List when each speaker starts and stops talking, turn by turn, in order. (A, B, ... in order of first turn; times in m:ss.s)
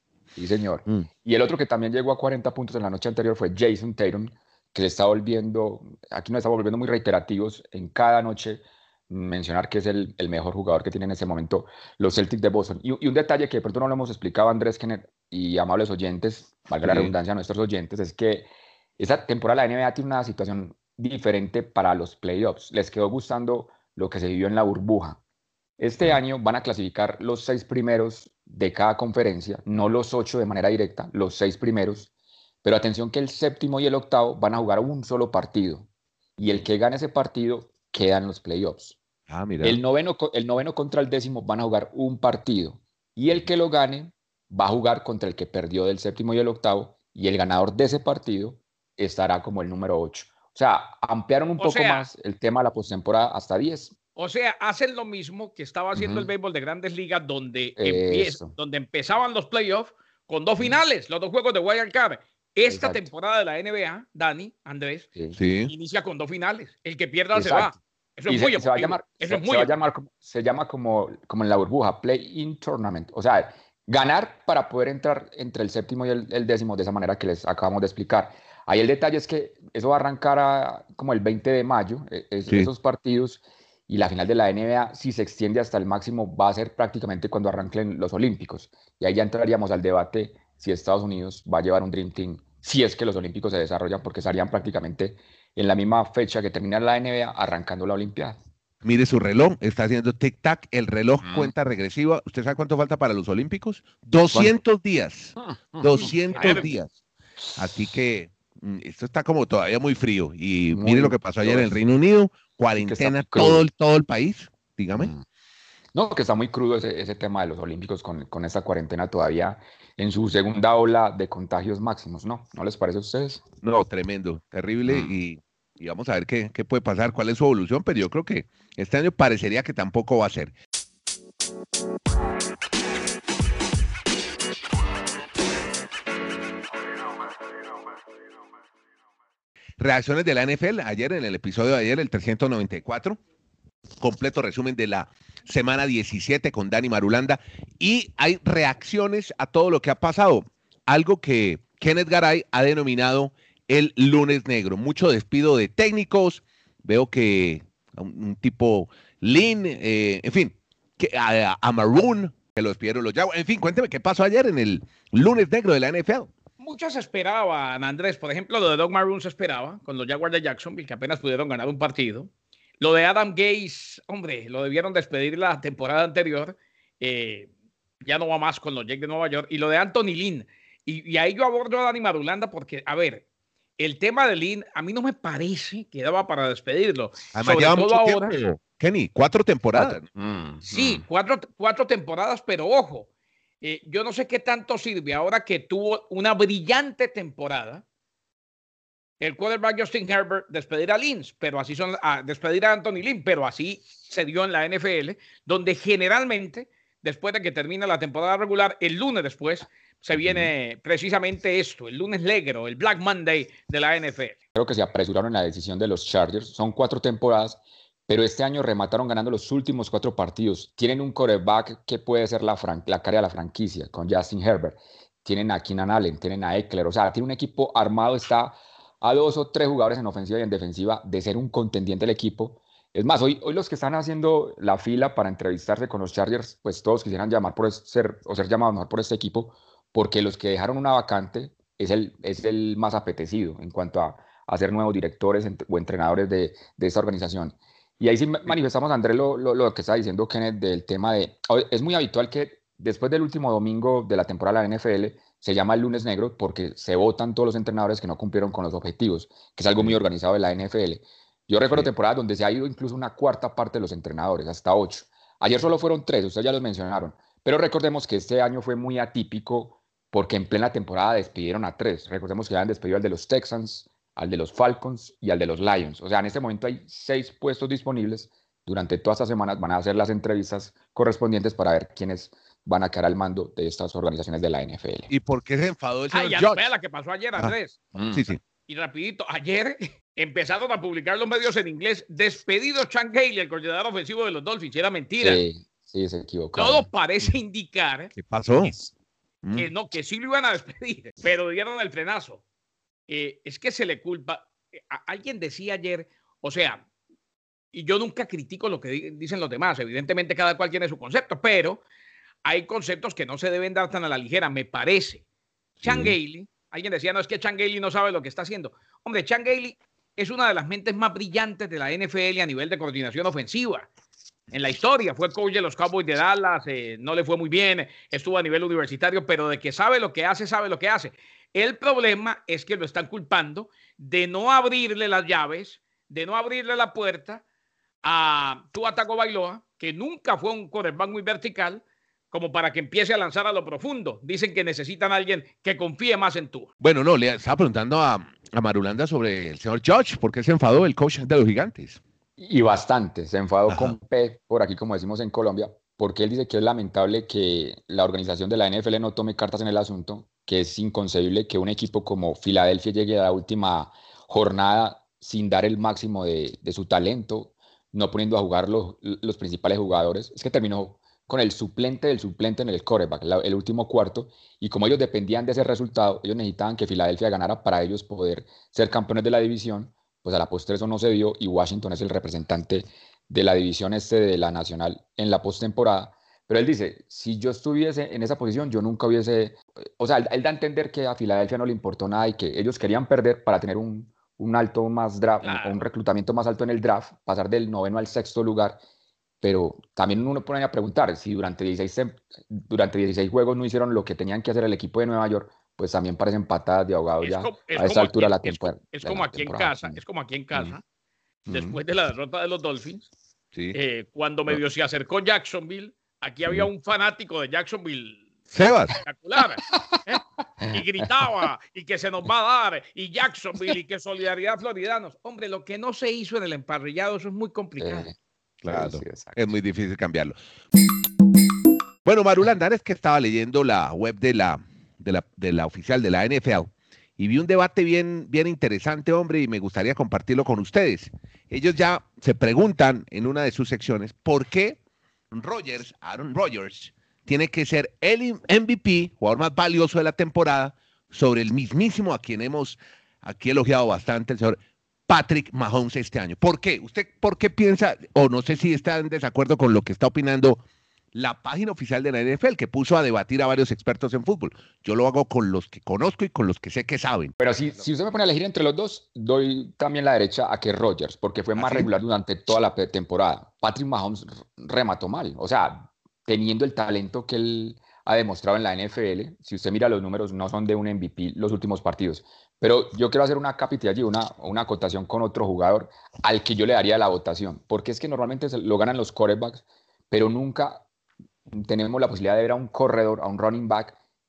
0:00.4-0:25.2 A
0:16.8-0:17.1 B
0:25.8-0:32.1 A
0:32.6-0:39.0 A
0:39.3-0:39.8 B
0:39.6-0:54.0 A
0:51.6-0:52.1 C
0:54.2-1:05.1 C
0:56.0-0:56.3 A
0:57.8-0:58.5 A
1:02.7-1:03.1 A
1:05.4-1:05.7 B
1:05.7-1:09.7 C
1:07.3-1:07.8 A
1:08.3-1:38.4 A
1:38.8-1:46.9 B
1:41.2-1:41.5 A
1:45.4-1:46.7 A
1:46.0-1:46.7 C
1:47.6-1:55.1 B
1:50.7-1:51.8 A
1:52.8-1:53.7 A
1:55.0-1:55.2 A
1:55.9-2:03.4 A
2:03.6-2:10.5 B
2:04.8-2:05.1 A
2:19.8-2:23.2 B
2:24.0-2:46.3 B
2:46.6-2:57.5 C
2:58.0-3:03.2 C
3:03.8-3:08.3 C
3:07.3-3:10.0 B
3:09.7-3:11.0 A
3:10.6-3:13.1 C
3:13.6-3:17.8 C
3:19.2-3:34.4 C
3:30.2-3:30.5 A
3:34.6-4:45.1 A
4:45.1-4:46.6 B
4:46.1-4:47.8 C
4:48.0-4:48.3 A
4:48.1-4:48.4 B
4:48.7-4:55.4 C
4:55.2-4:56.9 A
4:56.6-4:58.1 C
4:58.2-4:58.9 B
4:59.6-5:02.4 C
5:03.1-5:06.8 C
5:07.7-5:11.8 C
5:12.4-5:15.2 C
5:15.8-5:16.1 B
5:15.8-5:23.9 C
5:24.5-5:37.4 C
5:38.0-5:46.7 C
5:46.8-5:52.0 B
5:52.4-6:38.8 A
5:53.7-5:54.0 B
6:35.4-6:35.8 C
6:39.4-6:50.0 A
6:47.2-6:50.8 C
6:51.5-6:51.8 A
6:51.5-6:53.1 C
6:53.7-6:58.3 C
6:58.5-6:59.0 B
6:59.0-7:08.1 C
6:59.7-7:00.0 A
7:00.6-7:01.1 A
7:07.8-7:08.2 A
7:08.6-7:10.4 B
7:08.7-7:09.6 A
7:12.0-7:24.8 B
7:25.3-7:40.6 B
7:41.1-7:47.3 B
7:47.4-8:10.9 A
7:51.6-7:51.9 B
8:11.5-8:14.0 A